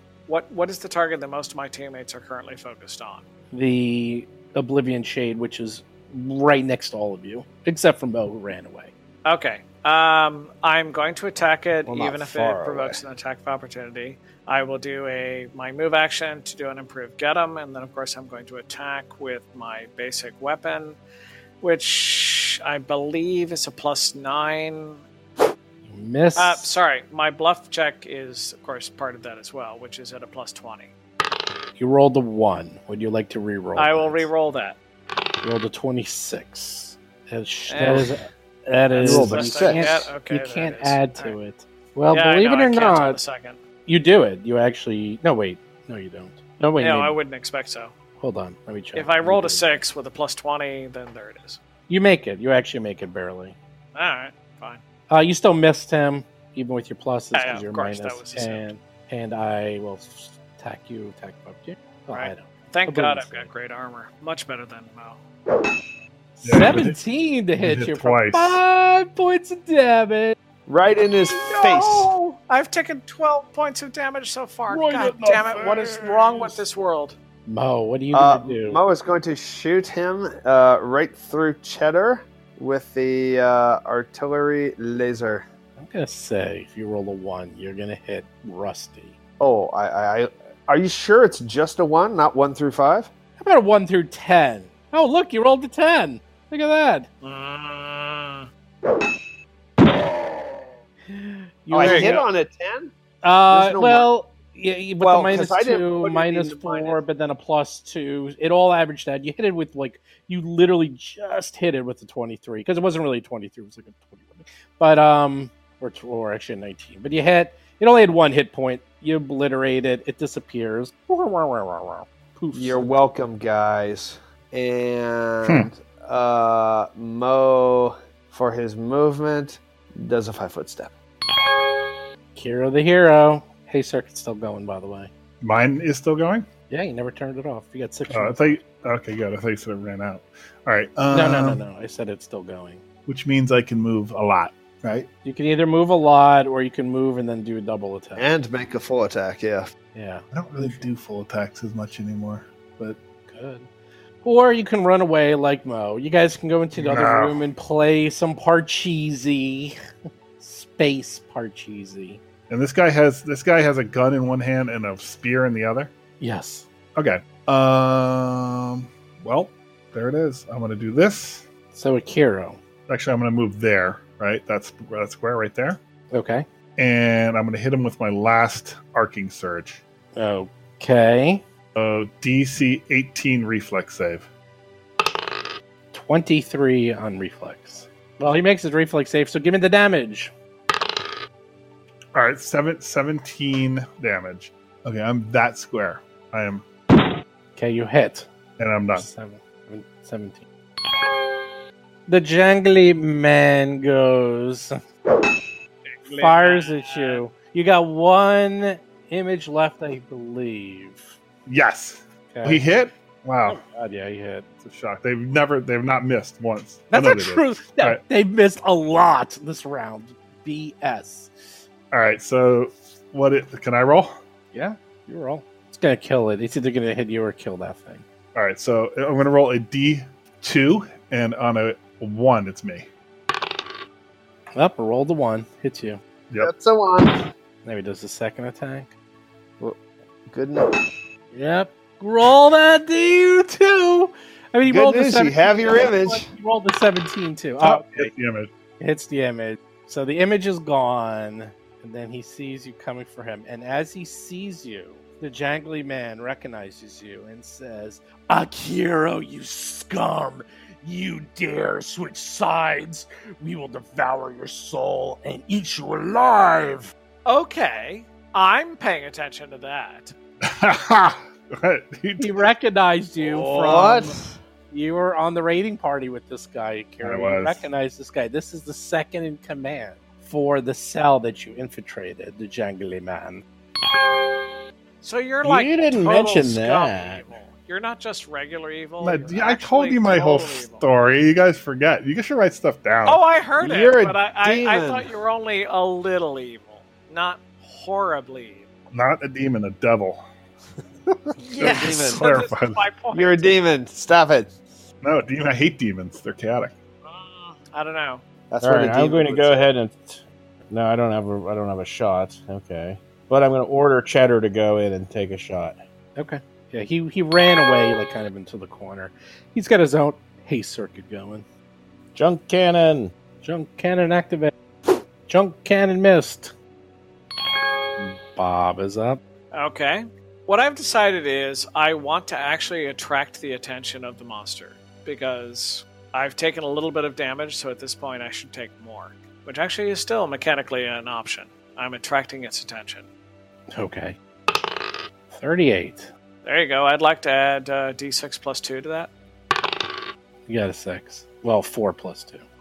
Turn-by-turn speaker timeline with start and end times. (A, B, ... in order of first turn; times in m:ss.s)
0:00.3-0:03.3 A
0:03.5-0:08.9 B
0:09.2-0:21.0 A
0:11.9-0:13.0 C
0:21.6-0:25.0 A
0:25.9-0:26.7 B
0:26.4-0:30.9 A
0:31.8-0:34.3 B
0:33.8-0:34.8 A
0:35.4-0:43.2 B
0:37.7-0:38.2 A
0:38.9-0:41.4 A
0:39.0-0:39.9 D
0:42.1-0:43.6 A
0:43.9-0:47.2 B
0:46.8-0:47.9 A
0:48.2-0:49.8 B
0:48.9-0:51.6 A
0:51.9-0:53.6 B
0:54.0-0:54.8 A
0:55.1-1:03.5 B
0:57.3-0:58.7 A
1:02.1-1:05.2 A
1:06.4-1:10.4 B
1:06.4-1:07.0 E
1:07.6-1:08.6 E
1:10.7-1:12.1 C
1:11.3-1:17.2 A
1:14.7-1:15.8 B
1:17.5-1:18.8 B
1:18.1-1:25.5 C
1:25.8-1:29.2 B
1:29.4-1:33.1 C
1:33.4-1:37.1 B
1:37.2-1:38.5 A
1:41.1-1:42.2 B
1:41.7-1:42.9 C
1:41.8-1:42.2 A
1:43.2-2:02.9 B
1:43.5-1:44.1 C
1:45.0-1:47.0 C
2:02.5-2:10.9 C
2:12.4-2:15.1 B
2:15.4-2:16.5 E
2:16.7-2:18.6 B
2:18.1-2:21.6 E
2:21.1-2:22.8 B
2:23.1-2:25.1 E
2:25.2-2:28.2 B
2:28.2-2:29.7 C
2:29.9-2:30.9 B
2:30.3-2:33.0 E
2:33.3-2:33.7 B
2:34.2-2:39.8 B
2:36.8-2:37.4 E
2:40.4-2:42.2 B
2:42.5-2:45.9 E
2:46.2-2:46.7 B
2:47.0-2:51.5 E
2:51.7-2:52.6 B
2:52.9-2:55.8 E
2:56.1-2:56.4 B
2:56.8-2:59.8 E
3:00.2-3:01.4 B
3:01.8-3:04.3 E
3:05.9-3:10.3 B
3:12.1-3:16.6 E
3:17.6-3:18.3 B
3:18.6-3:19.1 E
3:18.9-3:20.5 B
3:22.1-3:24.8 B
3:25.8-3:27.2 A
3:26.2-3:31.1 B
3:31.5-3:33.6 E
3:32.3-3:32.7 B
3:33.5-3:34.5 B
3:34.6-3:38.0 E
3:36.9-3:41.3 B
3:41.9-3:44.1 E
3:44.5-3:48.0 B
3:48.4-3:52.9 E
3:54.6-3:56.0 B
3:56.4-3:57.1 C
3:57.6-3:58.9 B
4:00.3-4:00.7 C
4:01.3-4:08.1 B
4:04.6-4:06.3 C
4:07.6-4:08.5 E
4:08.8-4:26.9 B
4:27.3-4:30.1 A
4:30.4-4:32.5 E
4:32.2-4:34.1 B
4:33.2-4:34.4 C
4:34.7-4:43.4 B
4:37.0-4:37.7 E
4:45.0-4:50.9 A
4:45.4-4:47.2 D
4:49.0-4:53.2 E
4:53.0-4:58.7 A
4:53.6-4:55.1 C
4:58.9-5:00.2 E
5:01.1-5:02.8 E
5:01.5-5:02.2 C
5:01.5-5:03.6 A
5:03.1-5:04.6 C
5:05.0-5:06.7 E
5:07.0-5:08.2 A
5:08.5-5:09.6 C
5:08.6-5:15.8 D
5:16.2-5:21.5 B
5:22.2-5:23.1 D
5:23.4-5:24.5 B
5:25.3-5:26.5 B
5:28.0-5:29.2 B
5:29.5-5:43.1 A
5:43.7-5:44.2 B
5:45.3-5:46.1 B
5:46.4-5:49.1 A
5:50.5-5:52.4 B